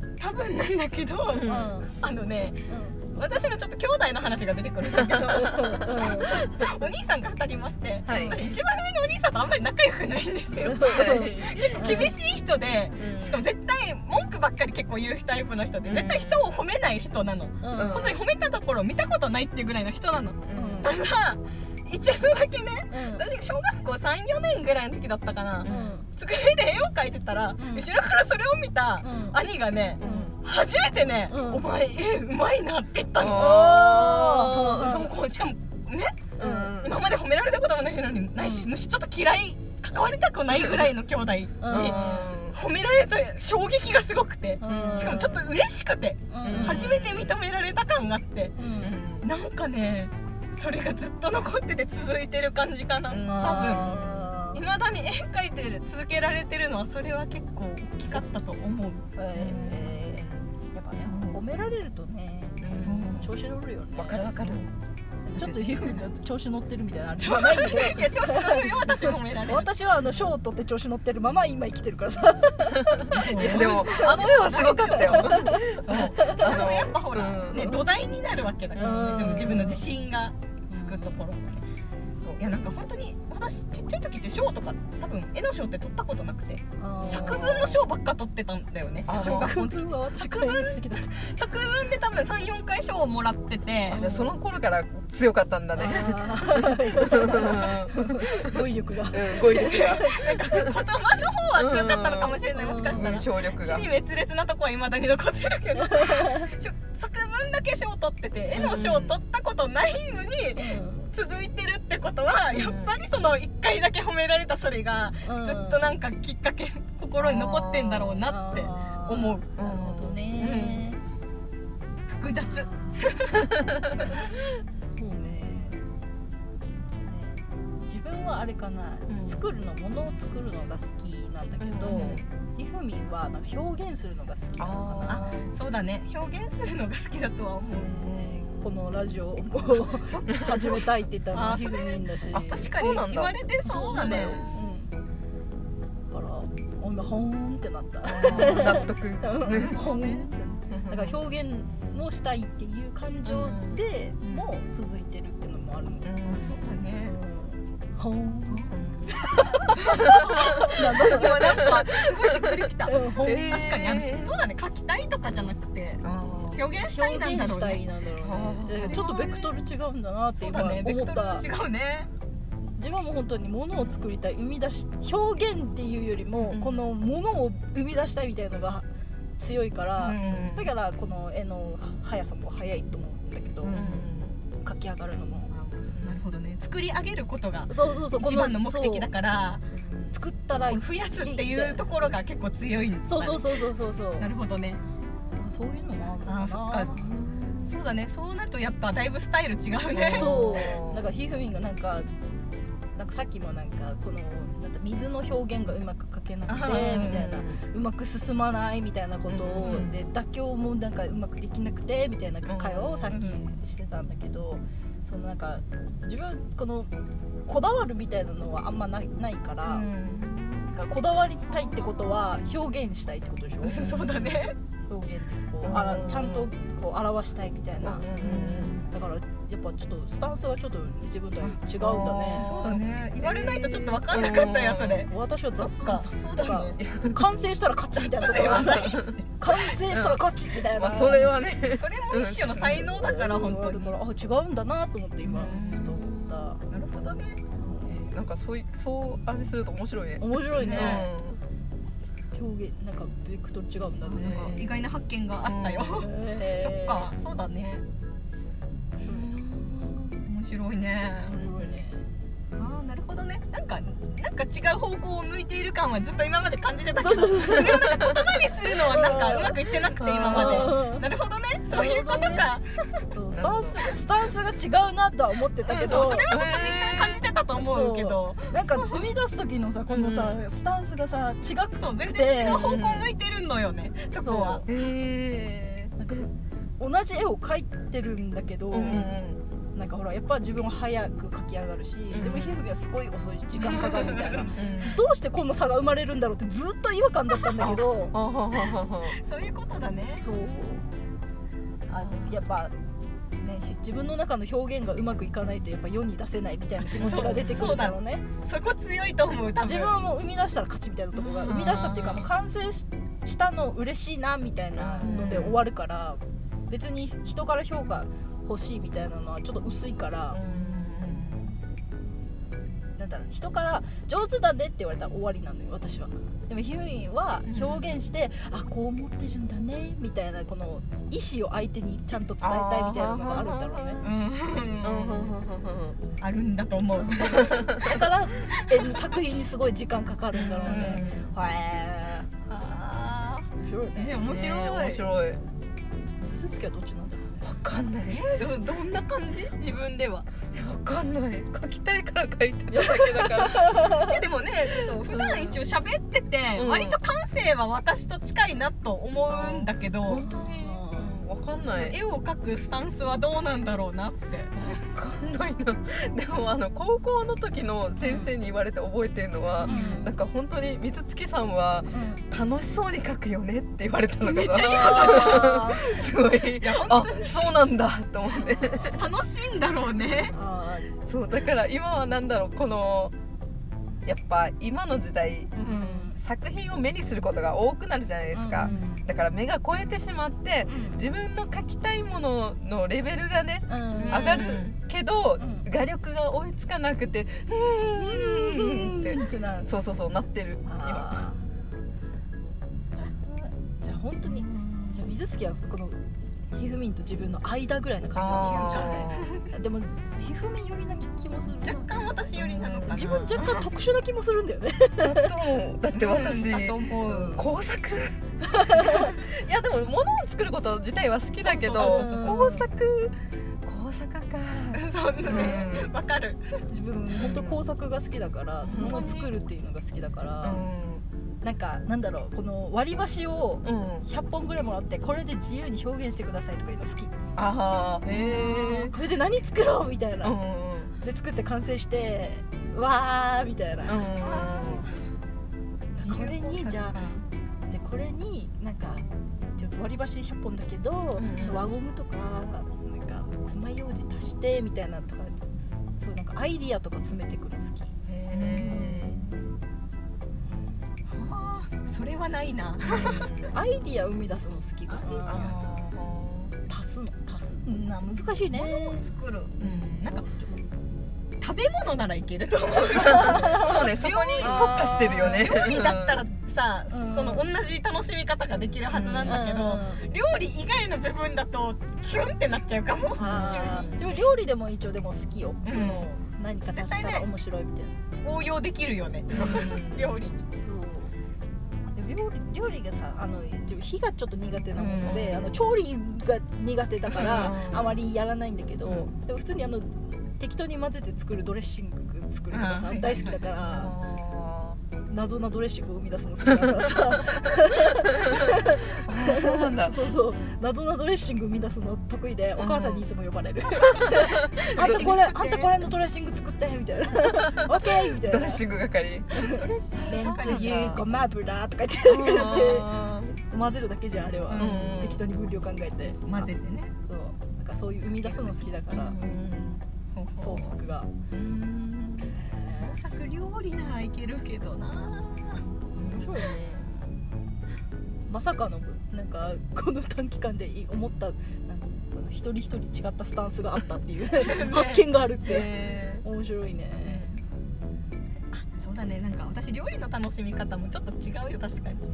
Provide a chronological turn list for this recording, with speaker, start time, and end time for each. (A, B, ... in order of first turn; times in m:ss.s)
0:00.2-0:48.6 A
0:01.3-0:01.7 B
0:01.4-0:01.9 C
0:02.7-0:03.2 C
0:05.4-0:06.6 C
0:08.0-0:08.6 B
0:08.1-0:08.5 C
0:10.6-0:12.1 C
0:10.8-0:12.1 B
0:13.0-0:13.4 B
0:15.8-0:16.4 B
0:17.6-0:18.1 C
0:17.7-0:18.2 B
0:20.4-0:20.8 B
0:20.5-0:20.9 C
0:22.9-0:23.2 C
0:25.6-0:25.9 B
0:25.6-0:26.1 C
0:27.6-0:27.9 C
0:29.0-0:29.4 C
0:30.0-0:30.3 B
0:30.0-0:30.4 C
0:31.3-0:31.6 C
0:33.2-0:35.0 B
0:33.3-0:35.1 C
0:36.4-0:37.0 B
0:36.4-0:36.7 C
0:38.4-0:38.7 C
0:41.6-0:42.3 C
0:41.7-0:42.6 B
0:44.6-0:45.4 C
0:44.6-0:45.3 B
0:46.3-0:46.9 C
0:46.4-0:47.4 B
0:48.6-0:49.0 C
0:48.8-0:49.3 B
0:49.2-0:54.0 A
0:53.1-0:54.3 B
0:53.2-0:54.6 C
0:54.5-0:59.0 A
0:59.2-1:04.3 C
0:59.3-1:00.5 B
1:01.0-1:01.4 A
1:02.6-1:03.3 B
1:02.8-1:03.3 A
1:03.9-1:04.7 B
1:04.4-1:04.7 A
1:05.3-1:16.6 C
1:05.3-1:06.0 A
1:07.2-1:09.7 A
1:13.1-1:21.6 A
1:13.2-1:17.8 B
1:18.7-1:19.8 B
1:18.8-1:19.8 C
1:20.7-1:21.2 C
1:22.4-1:34.0 A
1:26.8-1:27.7 C
1:27.0-1:27.8 B
1:29.0-1:31.3 C
1:29.1-1:29.6 B
1:33.9-1:40.6 B
1:33.9-1:34.4 C
1:35.8-1:40.4 C
1:39.5-1:59.5 A
1:41.5-1:43.9 B
1:42.5-1:43.2 C
1:45.8-1:46.5 C
1:48.5-1:49.2 B
1:50.6-1:51.2 C
1:52.5-1:52.9 B
1:55.2-1:55.9 C
1:57.2-1:58.2 B
1:58.2-2:01.0 C
1:59.6-2:00.3 B
2:00.4-2:00.9 A
2:02.1-2:03.5 A
2:02.4-2:03.0 C
2:04.8-2:05.8 C
2:07.1-2:15.5 C
2:09.1-2:09.4 B
2:11.6-2:12.2 B
2:11.9-2:12.2 A
2:14.6-2:15.5 B
2:15.1-2:18.0 A
2:17.8-2:22.8 C
2:17.9-2:18.8 B
2:20.0-2:20.5 A
2:21.3-2:24.6 A
2:22.3-2:24.4 B
2:23.6-2:24.9 C
2:26.1-2:36.1 C
2:28.0-2:29.8 B
2:28.3-2:28.8 A
2:29.4-2:30.3 A
2:30.7-2:31.2 B
2:33.2-2:33.8 B
2:36.0-2:36.7 B
2:36.2-2:37.2 A
2:37.0-2:42.0 C
2:38.7-2:39.2 B
2:39.8-2:47.8 A
2:40.1-2:40.8 B
2:41.3-2:44.4 B
2:42.8-2:43.7 C
2:46.0-2:46.6 B
2:46.8-2:51.5 C
2:48.2-2:49.0 B
2:48.7-2:49.6 A
2:50.4-2:52.1 A
2:52.8-2:58.8 C
2:56.4-2:56.8 B
2:59.4-3:03.8 C
3:00.0-3:00.6 A
3:00.2-3:00.6 B
3:03.6-3:04.4 B
3:03.7-3:04.1 A
3:04.6-3:05.5 C
3:05.5-3:09.6 A
3:07.7-3:09.1 C
3:09.7-3:10.2 B
3:10.1-3:11.8 C
3:10.6-3:13.6 A
3:13.0-3:14.3 C
3:14.2-3:14.8 A
3:15.4-3:17.1 C
3:16.2-3:16.9 A
3:17.1-3:17.5 B
3:17.6-3:20.7 A
3:19.9-3:21.0 B
3:20.1-3:22.1 C
3:22.9-3:36.9 C
3:26.5-3:27.3 A
3:26.8-3:27.6 B
3:29.3-3:30.0 B
3:32.5-3:33.2 B
3:33.1-3:33.4 A
3:37.4-3:40.0 C
3:39.7-3:40.7 B
3:40.7-3:44.2 C
3:41.5-3:42.3 A
3:43.6-3:44.6 A
3:44.9-3:52.5 C
3:45.6-3:46.5 B
3:47.8-3:48.8 B
3:48.2-3:48.8 A
3:51.8-3:55.0 B
3:52.3-3:56.8 A
3:53.4-3:54.2 C
3:55.1-4:01.4 C
3:56.3-3:57.2 B
3:58.0-3:59.2 A
3:58.2-3:59.2 B
3:59.8-4:02.9 B
4:01.7-4:03.9 A
4:02.6-4:06.6 C
4:05.3-4:06.5 B
4:05.3-4:05.9 A
4:06.7-4:07.4 A
4:07.6-4:08.1 C
4:07.8-4:11.4 B
4:10.2-4:11.1 C
4:10.6-4:11.1 A
4:12.3-4:14.8 C
4:14.0-4:17.8 A
4:14.2-4:14.6 B
4:15.4-4:16.0 B
4:16.0-4:17.1 C
4:19.0-4:20.2 C
4:20.2-4:21.7 A
4:21.2-4:22.1 C
4:22.6-4:33.0 A
4:27.0-4:27.9 C
4:27.6-4:28.1 B
4:28.8-4:29.7 C
4:30.0-4:30.8 B
4:30.2-4:31.1 C
4:31.7-4:32.5 C
4:32.2-4:32.4 B
4:33.1-4:36.3 C
4:33.3-4:33.8 B
4:35.7-4:39.0 A
4:35.8-4:37.2 B
4:37.6-4:42.8 C
4:39.9-4:40.4 B
4:41.8-4:44.6 A
4:42.4-4:43.1 B
4:44.2-4:44.6 C
4:44.6-4:46.3 B
4:46.0-4:49.2 C
4:48.7-4:49.4 B
4:49.7-4:58.1 C
4:52.1-4:52.6 B
4:53.6-4:54.5 A
4:54.5-4:55.0 B
4:57.6-4:59.2 B
4:59.1-5:00.2 A
5:00.2-5:00.9 C
5:01.9-5:02.7 C
5:02.0-5:02.3 B
5:03.4-5:08.2 C
5:07.0-5:07.9 B
5:07.0-5:09.9 A
5:09.6-5:20.4 C
5:11.3-5:12.3 A
5:11.4-5:12.2 B
5:14.8-5:15.6 A
5:15.0-5:15.6 B
5:20.3-5:21.4 B
5:20.5-5:21.2 A
5:23.0-5:34.1 C
5:27.4-5:27.9 A
5:32.4-5:34.0 B
5:34.0-5:35.4 A
5:34.8-5:36.0 B
5:36.2-5:39.1 A
5:37.2-5:38.0 B
5:37.8-5:42.3 C
5:40.3-5:41.3 B
5:40.4-5:41.2 A
5:42.5-5:45.0 A
5:43.6-5:44.2 C
5:44.2-5:45.4 B
5:46.2-5:47.4 C
5:47.4-5:48.4 B
5:48.1-5:50.3 A
5:50.5-5:54.0 B
5:53.4-5:54.1 C
5:53.9-6:00.2 A
5:55.1-5:55.6 B
5:56.5-5:57.0 B
5:59.3-6:02.0 B
6:00.1-6:01.2 C
6:01.6-6:04.5 A
6:04.5-6:19.0 B
6:08.0-6:08.3 A
6:09.6-6:09.9 A
6:09.6-6:10.1 C
6:11.9-6:12.2 C
6:14.2-6:15.6 A
6:14.5-6:16.1 C
6:16.4-6:17.5 A
6:18.3-6:18.9 C
6:18.9-6:20.3 A
6:20.3-6:20.9 C
6:21.0-6:23.1 B
6:24.0-6:25.6 B
6:25.6-6:26.1 A
6:25.6-6:26.2 C
6:26.1-6:41.2 B
6:28.3-6:29.0 C
6:28.6-6:29.0 A
6:30.7-6:31.0 C
6:33.7-6:34.6 C
6:34.0-6:34.8 A
6:35.4-6:35.6 C
6:37.9-6:39.7 C
6:40.6-6:41.4 C
6:43.8-6:55.3 C
6:44.4-6:44.8 A
6:48.1-6:49.2 B
6:48.3-6:49.4 A
6:51.6-6:53.7 A
6:52.4-6:53.4 B
6:55.0-7:05.9 B
6:55.9-6:57.5 A
6:57.1-6:57.4 C
6:58.6-6:59.1 C
7:01.4-7:02.4 A
7:01.7-7:02.7 C
7:04.7-7:06.6 A
7:05.4-7:05.6 C
7:06.7-7:10.6 C
7:07.1-7:07.6 B
7:08.6-7:09.3 B
7:08.7-7:09.1 A
7:10.4-7:11.0 B
7:11.4-7:17.1 C
7:13.6-7:14.1 B
7:17.4-7:18.9 B
7:18.0-7:20.4 C
7:20.2-7:20.9 B
7:21.0-7:24.1 C
7:23.8-7:24.9 B
7:24.2-7:24.9 A
7:26.0-7:27.0 C
7:26.0-7:27.3 A
7:27.7-7:29.0 C
7:29.6-7:35.4 C
7:31.2-7:31.6 B
7:31.2-7:31.6 A
7:36.0-7:39.4 C
7:38.0-7:39.2 B
7:40.5-7:40.8 C
7:41.1-7:43.3 A
7:42.8-7:43.5 B
7:43.4-7:45.5 C
7:44.9-7:45.5 A
7:45.2-7:46.5 B
7:46.7-7:49.0 C
7:48.5-7:50.2 A
7:49.6-7:50.8 C
7:51.4-8:04.4 A
7:52.9-7:53.6 C
7:53.0-7:56.2 B
7:54.4-7:55.5 C
7:56.9-7:57.4 C
7:58.9-7:59.4 B
7:59.2-8:00.0 C
8:03.1-8:07.9 C
8:03.2-8:04.0 B
8:05.6-8:06.1 A
8:06.7-8:07.3 A
8:08.2-8:10.5 A
8:09.3-8:10.2 B
8:09.3-8:09.7 C
8:10.6-8:11.1 C
8:11.9-8:23.9 C
8:14.8-8:15.3 A
8:15.0-8:15.6 B
8:17.1-8:18.0 B
8:17.2-8:17.5 A
8:22.5-8:23.5 A
8:23.6-8:24.8 B
8:25.1-8:38.6 C
8:29.0-8:30.0 B
8:32.6-8:33.1 B
8:34.2-8:35.1 B
8:34.7-8:35.8 A
8:37.5-8:39.3 B
8:39.3-8:46.5 C
8:39.4-8:41.0 A
8:40.0-8:41.0 B
8:42.0-8:43.3 B
8:44.5-8:44.9 A
8:44.5-8:45.2 B
8:46.2-8:46.9 A
8:47.0-8:49.2 C
8:48.2-8:49.8 B
8:50.1-8:50.8 A
8:50.4-8:51.1 C
8:51.3-8:52.4 B
8:52.2-8:53.0 C
8:52.6-8:56.9 A
8:55.9-8:56.5 B
8:58.3-9:07.3 C
9:04.4-9:05.0 A
9:05.4-9:06.2 B
9:07.0-9:07.4 B
9:08.5-9:12.0 A